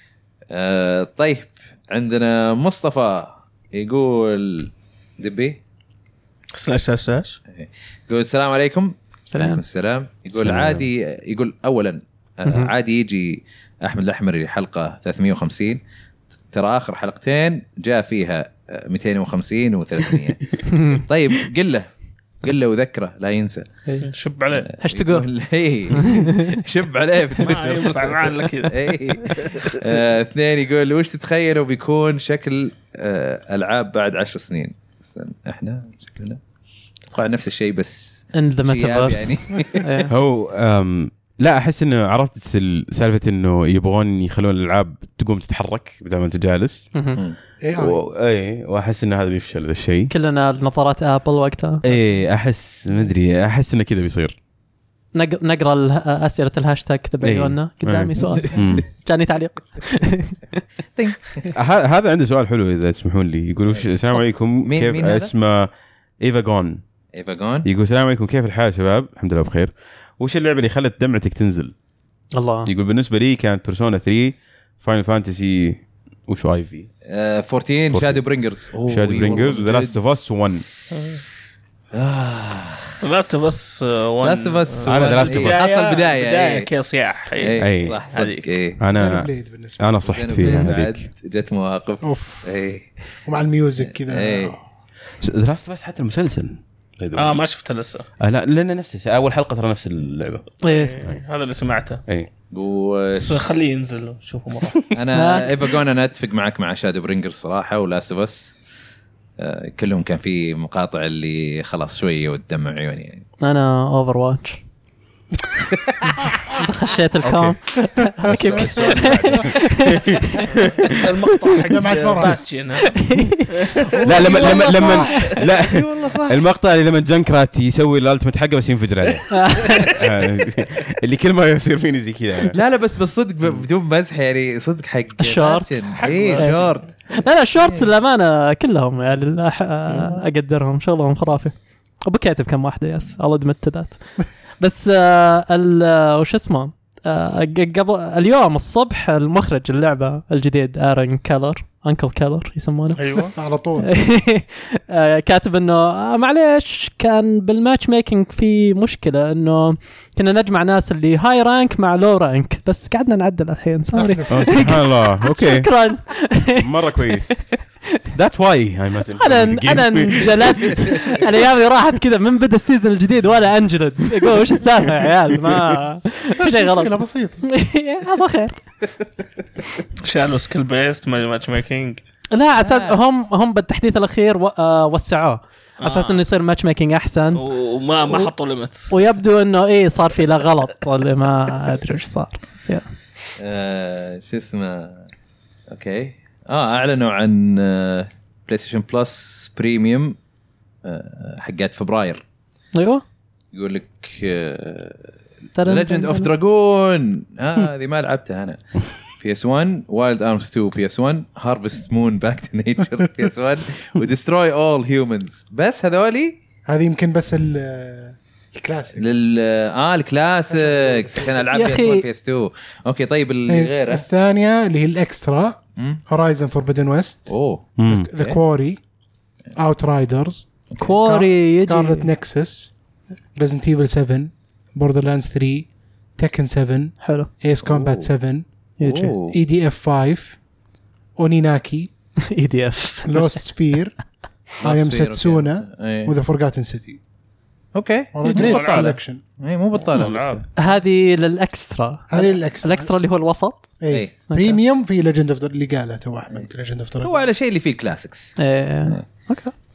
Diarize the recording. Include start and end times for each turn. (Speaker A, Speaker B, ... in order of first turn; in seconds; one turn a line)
Speaker A: 0.5-5.6
Speaker B: 6.5-7.4
Speaker A: 7.5-15.8
Speaker C: 9.3-9.6
Speaker D: 10.3-10.9
Speaker C: 12.5-12.7
Speaker A: 16.5-21.9
Speaker C: 20.7-21.0
Speaker A: 22.4-23.7
Speaker B: 24.0-24.7
Speaker A: 24.5-36.4
Speaker C: 24.8-25.3
Speaker C: 26.0-26.4
Speaker B: 27.4-29.8
Speaker A: 37.1-39.8
Speaker C: 38.3-40.1
Speaker D: 40.1-46.9
Speaker C: 47.0-47.2
Speaker E: 47.6-48.0
Speaker D: 47.7-50.1
Speaker C: 50.1-51.8
Speaker D: 51.8-54.4
Speaker C: 55.1-60.6
Speaker D: 57.2-58.9
Speaker A: 61.0-61.5
Speaker D: 61.5-66.8
Speaker A: 64.6-65.3
Speaker A: 67.1-67.7
Speaker D: 67.6-71.7
Speaker C: 72.3-72.7
Speaker D: 72.7-76.9
Speaker A: 77.1-80.0
Speaker D: 77.9-78.2
Speaker D: 78.8-80.7
Speaker B: 80.9-81.2
Speaker A: 81.9-83.0
Speaker B: 83.0-88.5
Speaker A: 84.2-86.7
Speaker D: 84.9-85.6
Speaker A: 87.4-88.8
Speaker D: 87.6-88.0
Speaker D: 88.8-91.0
Speaker E: 88.9-90.0
Speaker A: 90.0-92.9
Speaker E: 92.0-92.5
Speaker E: 93.3-94.6
Speaker A: 93.8-94.5
Speaker D: 95.2-97.4
Speaker B: 97.1-98.1
Speaker D: 98.2-100.5
Speaker C: 100.6-101.0
Speaker B: 100.6-102.0
Speaker A: 102.5-103.4
Speaker B: 103.2-104.9
Speaker A: 104.9-108.6
Speaker C: 105.1-105.5
Speaker A: 109.4-113.2
Speaker C: 113.4-114.6
Speaker C: 116.6-120.5
Speaker D: 117.2-121.0
Speaker A: 118.3-119.5
Speaker B: 120.6-125.4
Speaker E: 121.6-122.4
Speaker C: 122.9-125.3
Speaker D: 124.0-132.6
Speaker A: 124.1-126.4
Speaker C: 129.3-129.9
Speaker A: 132.5-137.0
Speaker C: 135.2-141.5
Speaker B: 135.9-136.8
Speaker C: 142.1-144.0
Speaker C: 144.6-168.0
Speaker B: 153.0-153.3
Speaker E: 153.3-154.0
Speaker E: 163.9-164.8
Speaker D: 164.3-165.7
Speaker D: 166.6-167.3
Speaker D: 168.1-171.0
Speaker C: 169.2-178.6
Speaker E: 176.4-177.5
Speaker B: 180.0-182.0
Speaker C: 182.3-187.4
Speaker A: 182.6-183.0
Speaker B: 185.8-186.2
Speaker B: 187.3-189.0
Speaker C: 188.9-192.9
Speaker A: 193.4-195.1
Speaker A: 195.7-200.2
Speaker A: 200.8-202.2
Speaker C: 202.8-203.0
Speaker A: 203.5-205.1
Speaker C: 205.6-206.3
Speaker A: 205.6-208.6
Speaker A: 209.2-216.4
Speaker E: 216.7-219.3
Speaker A: 219.0-224.0
Speaker E: 220.6-221.6
Speaker C: 221.5-222.1
Speaker E: 223.5-228.8
Speaker A: 225.8-226.0
Speaker A: 227.3-228.4
Speaker D: 227.8-228.1
Speaker E: 229.6-232.7
Speaker C: 230.8-232.1
Speaker E: 233.3-238.5
Speaker C: 237.0-237.3
Speaker A: 237.6-238.1
Speaker C: 238.8-239.1
Speaker A: 238.8-239.4
Speaker E: 239.3-240.4
Speaker E: 241.2-241.9
Speaker C: 242.3-243.4
Speaker E: 243.1-244.0
Speaker E: 244.6-247.0
Speaker A: 244.6-246.1
Speaker A: 247.7-250.4
Speaker E: 248.1-249.2
Speaker B: 248.3-248.9
Speaker B: 249.8-250.4
Speaker C: 250.6-253.8
Speaker E: 252.1-252.9
Speaker E: 253.8-257.2
Speaker C: 254.3-254.6
Speaker A: 257.0-258.4
Speaker C: 258.4-259.5